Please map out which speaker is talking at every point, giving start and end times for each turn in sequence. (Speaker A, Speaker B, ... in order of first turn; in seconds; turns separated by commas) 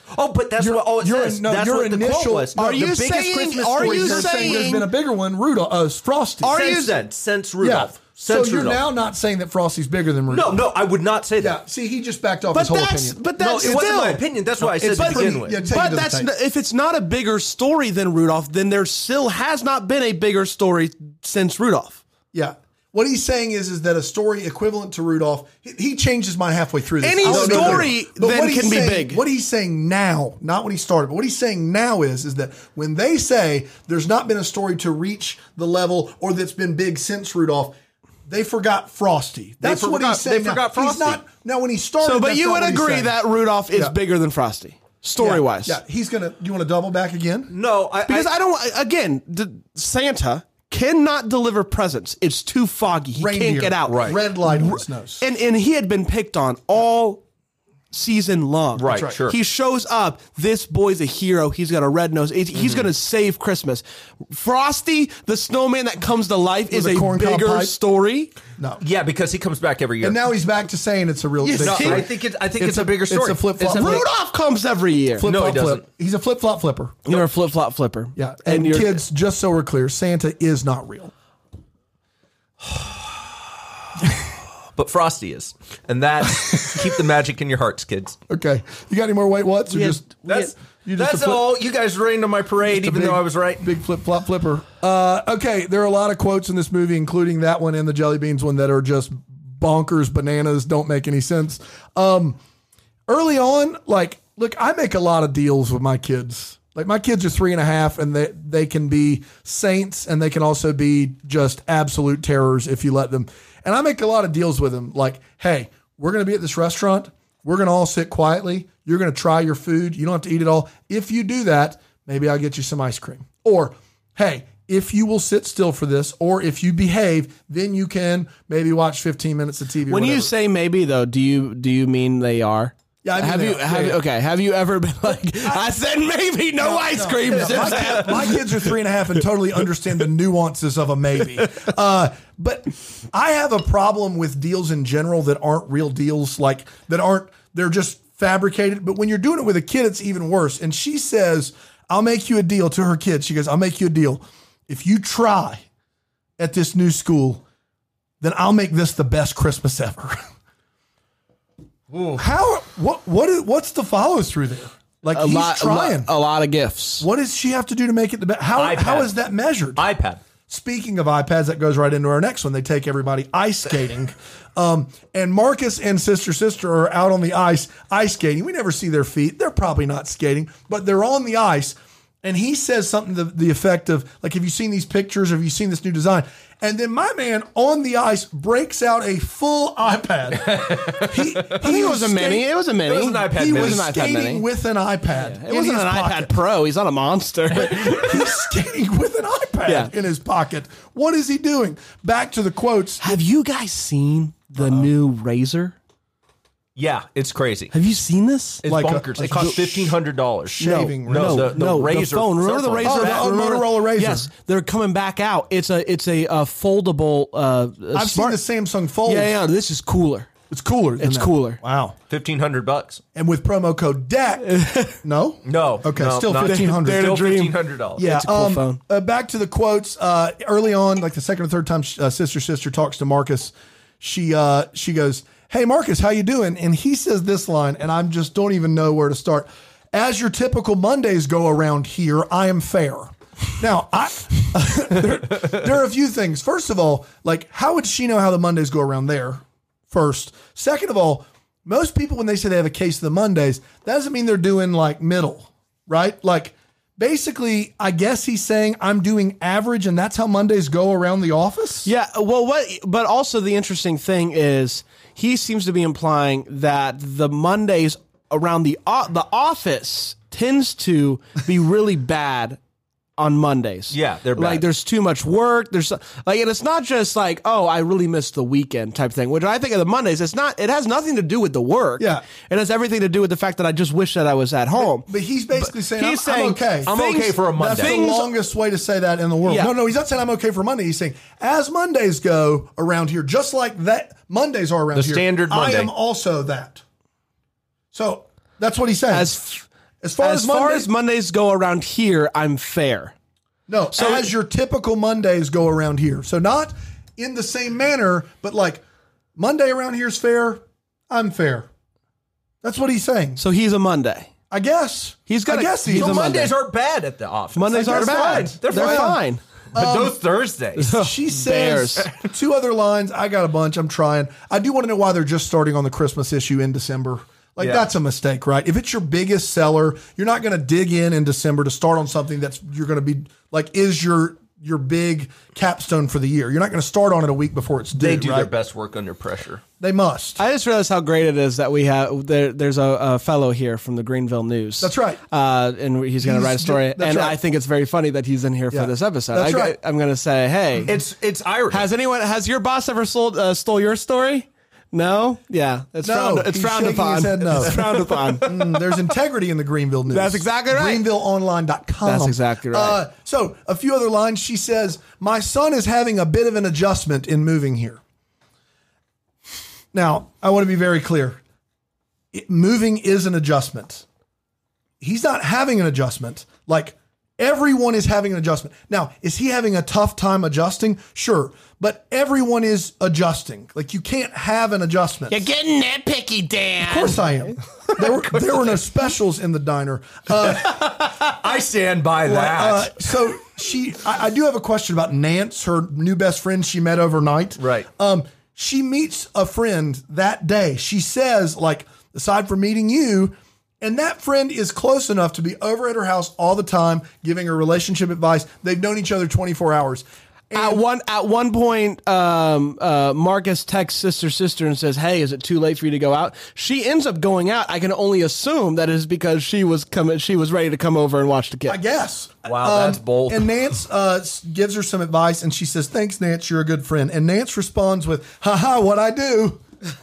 Speaker A: 0.1-4.7, Speaker B: 0.6-2.9, Speaker C: 2.5-4.9, Speaker B: 3.7-6.6, Speaker C: 6.4-6.9, Speaker A: 6.5-8.8, Speaker B: 7.6-10.6, Speaker A: 10.3-11.6, Speaker B: 11.4-13.8, Speaker C: 12.5-14.2, Speaker A: 13.4-15.6, Speaker B: 14.6-16.3, Speaker C: 14.8-22.0, Speaker B: 22.3-37.8, Speaker C: 27.0-29.2, Speaker A: 27.2-27.9, Speaker B: 38.3-43.1, Speaker A: 39.6-41.2, Speaker C: 42.0-45.8, Speaker B: 45.2-47.5, Speaker A: 47.5-48.3, Speaker C: 48.1-57.2, Speaker B: 53.1-55.2, Speaker A: 53.9-54.2, Speaker C: 57.9-68.3, Speaker A: 58.8-59.4, Speaker B: 58.9-59.1, Speaker A: 62.5-62.9, Speaker B: 66.7-67.7, Speaker B: 68.6-68.8, Speaker A: 68.8-70.2, Speaker B: 70.0-74.1, Speaker C: 71.4-72.0, Speaker A: 71.6-74.1, Speaker C: 73.6-75.3, Speaker B: 75.2-77.0, Speaker A: 75.2-75.8, Speaker C: 77.0-79.0, Speaker B: 78.2-81.1, Speaker A: 84.8-88.2, Speaker B: 88.3-91.5, Speaker C: 89.7-90.5, Speaker A: 90.2-93.7, Speaker B: 92.7-102.4, Speaker B: 103.1-130.3, Speaker C: 129.9-138.7, Speaker B: 133.0-134.0, Speaker B: 135.4-135.7, Speaker B: 136.6-155.6, Speaker B: 156.4-157.4, Speaker B: 158.2-160.2, Speaker A: 161.9-162.2, Speaker B: 162.2-166.1, Speaker C: 165.1-167.1, Speaker B: 167.0-169.8, Speaker A: 168.6-169.1, Speaker A: 169.8-170.2, Speaker B: 170.5-192.5, Speaker A: 190.4-191.5, Speaker C: 191.5-194.4, Speaker A: 192.8-194.0, Speaker B: 193.3-196.4, Speaker C: 195.1-198.1, Speaker B: 197.5-203.1, Speaker C: 199.7-199.9, Speaker C: 203.0-205.8, Speaker B: 204.6-204.9, Speaker A: 206.8-207.7, Speaker C: 207.7-208.6, Speaker A: 208.6-213.3, Speaker B: 208.7-210.0, Speaker B: 210.5-211.6, Speaker C: 210.6-218.4, Speaker B: 212.8-214.3, Speaker B: 217.9-219.3, Speaker C: 219.1-220.3, Speaker B: 220.5-221.9, Speaker C: 221.0-221.6, Speaker A: 222.1-223.0, Speaker B: 223.1-227.2, Speaker C: 224.4-225.0, Speaker A: 225.4-228.0, Speaker C: 226.4-228.8, Speaker B: 228.0-261.9, Speaker C: 261.8-272.6, Speaker C: 273.2-288.3, Speaker A: 273.9-274.6, Speaker B: 282.0-282.2, Speaker B: 284.8-286.9, Speaker A: 286.9-288.0, Speaker B: 287.5-296.8, Speaker C: 289.4-289.7, Speaker A: 294.9-295.9, Speaker B: 297.9-299.3, Speaker C: 299.1-299.7, Speaker B: 300.0-300.9, Speaker C: 300.2-303.1, Speaker B: 303.7-308.8, Speaker C: 303.9-304.3, Speaker B: 309.4-311.7, Speaker B: 312.6-313.4, Speaker C: 313.4-314.3, Speaker B: 314.5-316.3, Speaker C: 315.3-316.5, Speaker A: 315.9-319.2, Speaker C: 317.5-319.4, Speaker B: 317.7-319.2, Speaker B: 319.7-320.2, Speaker A: 319.7-320.9, Speaker C: 320.8-322.1, Speaker B: 320.9-338.5, Speaker A: 327.6-327.9, Speaker A: 337.9-339.6, Speaker B: 339.8-340.4, Speaker C: 340.4-351.0, Speaker B: 344.8-345.2, Speaker B: 346.2-347.4, Speaker B: 348.7-349.8, Speaker A: 350.9-351.8, Speaker C: 351.7-358.7, Speaker B: 356.0-368.0, Speaker C: 360.1-361.1, Speaker C: 362.0-363.0, Speaker B: 369.9-371.4, Speaker B: 372.3-374.0, Speaker B: 375.0-385.4, Speaker C: 385.3-387.3, Speaker B: 386.8-391.0, Speaker A: 390.5-393.0, Speaker B: 392.2-410.8, Speaker A: 397.6-397.9, Speaker C: 410.5-421.8, Speaker B: 421.7-429.6, Speaker A: 422.4-423.5